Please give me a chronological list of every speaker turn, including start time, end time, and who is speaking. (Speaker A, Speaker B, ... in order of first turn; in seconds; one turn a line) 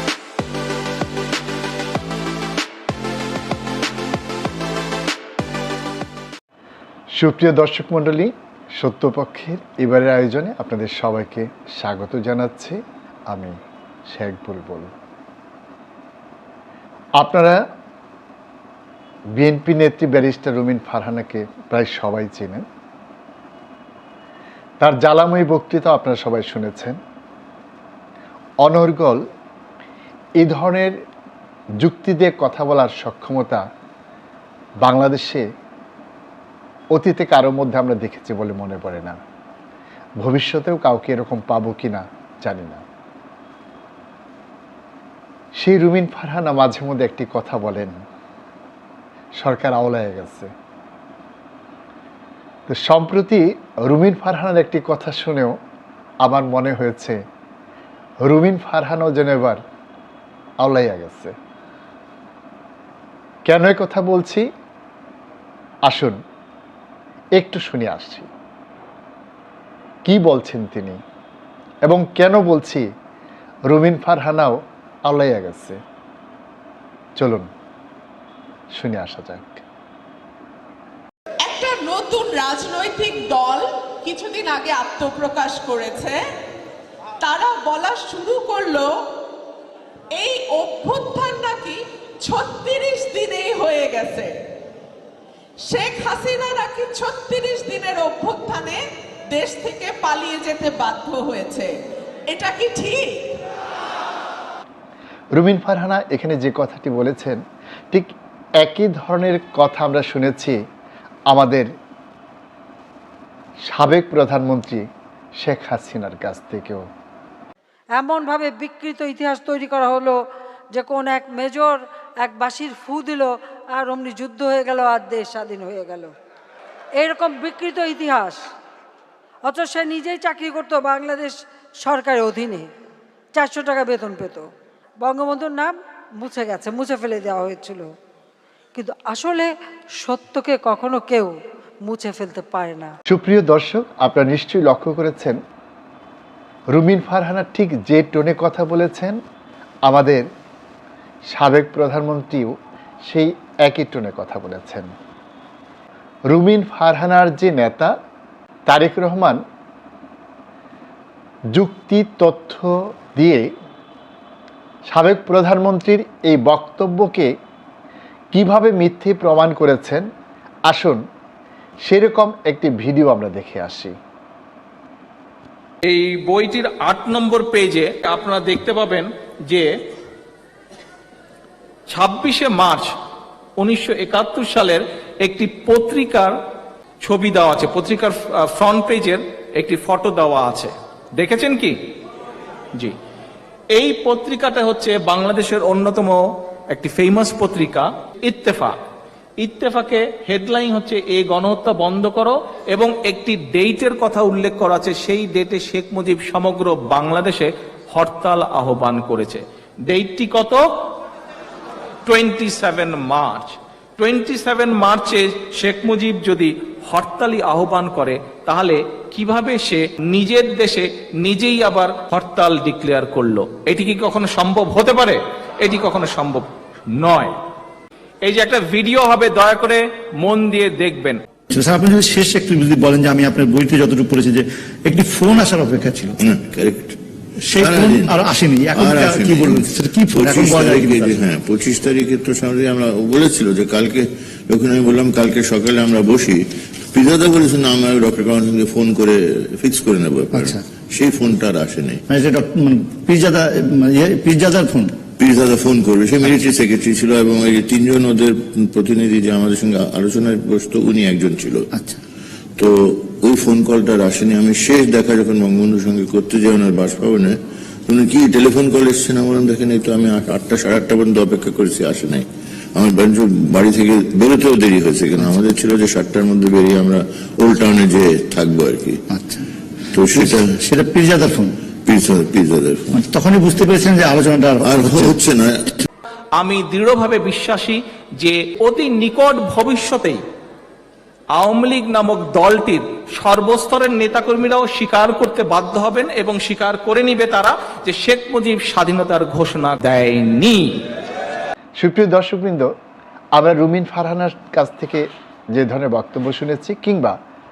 Speaker A: 7.2-12.8
Speaker A: 14.1-14.9
Speaker A: 17.2-17.6
Speaker A: 19.4-22.6
Speaker A: 24.8-27.0
Speaker A: 28.6-29.2
Speaker A: 30.4-30.9
Speaker A: 31.8-33.6
Speaker A: 34.8-35.4
Speaker A: 36.9-39.2
Speaker A: 40.2-42.8
Speaker A: 45.6-47.9
Speaker A: 49.4-50.5
Speaker A: 52.7-55.5
Speaker A: 56.2-57.2
Speaker A: 58.2-59.6
Speaker A: 60.6-61.3
Speaker A: 63.5-64.4
Speaker A: 65.8-66.2
Speaker A: 67.4-68.3
Speaker A: 70.0-71.0
Speaker A: 71.8-72.8
Speaker A: 73.7-75.8
Speaker A: 77.2-77.5
Speaker A: 78.8-79.6
Speaker B: 81.4-86.2
Speaker B: 87.2-89.0
Speaker B: 90.1-94.3
Speaker B: 95.6-101.7
Speaker B: 102.3-103.4
Speaker A: 105.3-107.4
Speaker A: 108.6-110.6
Speaker A: 111.3-111.7
Speaker A: 113.7-114.8
Speaker A: 115.4-116.8
Speaker C: 117.9-120.2
Speaker C: 120.7-126.1
Speaker C: 127.0-128.4
Speaker C: 129.4-132.7
Speaker C: 133.3-134.4
Speaker C: 135.0-137.9
Speaker C: 138.7-139.5
Speaker C: 140.0-141.3
Speaker C: 141.8-142.9
Speaker A: 143.1-145.4
Speaker A: 146.7-149.2
Speaker A: 149.8-150.2
Speaker A: 151.3-152.5
Speaker A: 153.1-154.9
Speaker A: 156.3-157.9
Speaker A: 158.7-159.4
Speaker A: 161.5-163.5
Speaker A: 164.9-167.3
Speaker A: 168.3-170.0
Speaker A: 170.7-171.0
Speaker A: 171.8-173.9
Speaker D: 175.8-179.7
Speaker D: 181.9-182.9
Speaker D: 183.6-186.3
Speaker D: 187.0-191.8
Speaker D: 193.7-198.8
Speaker D: 199.4-210.7
Speaker D: 212.1-227.3
Speaker D: 228.2-231.2
Speaker E: 231.5-236.2
Speaker F: 236.2-237.0
Speaker E: 237.4-241.2
Speaker F: 237.6-246.4
Speaker F: 246.9-252.0
Speaker E: 250.3-250.6
Speaker E: 252.1-255.0
Speaker F: 255.2-261.6
Speaker E: 261.7-262.0
Speaker F: 262.6-267.4
Speaker F: 267.9-279.0
Speaker E: 279.1-279.4
Speaker F: 279.9-280.6
Speaker E: 279.9-281.6
Speaker F: 281.8-283.0
Speaker E: 282.9-285.2
Speaker F: 284.6-285.6
Speaker D: 286.3-290.2
Speaker D: 291.3-300.8
Speaker A: 301.8-302.7
Speaker A: 303.3-307.1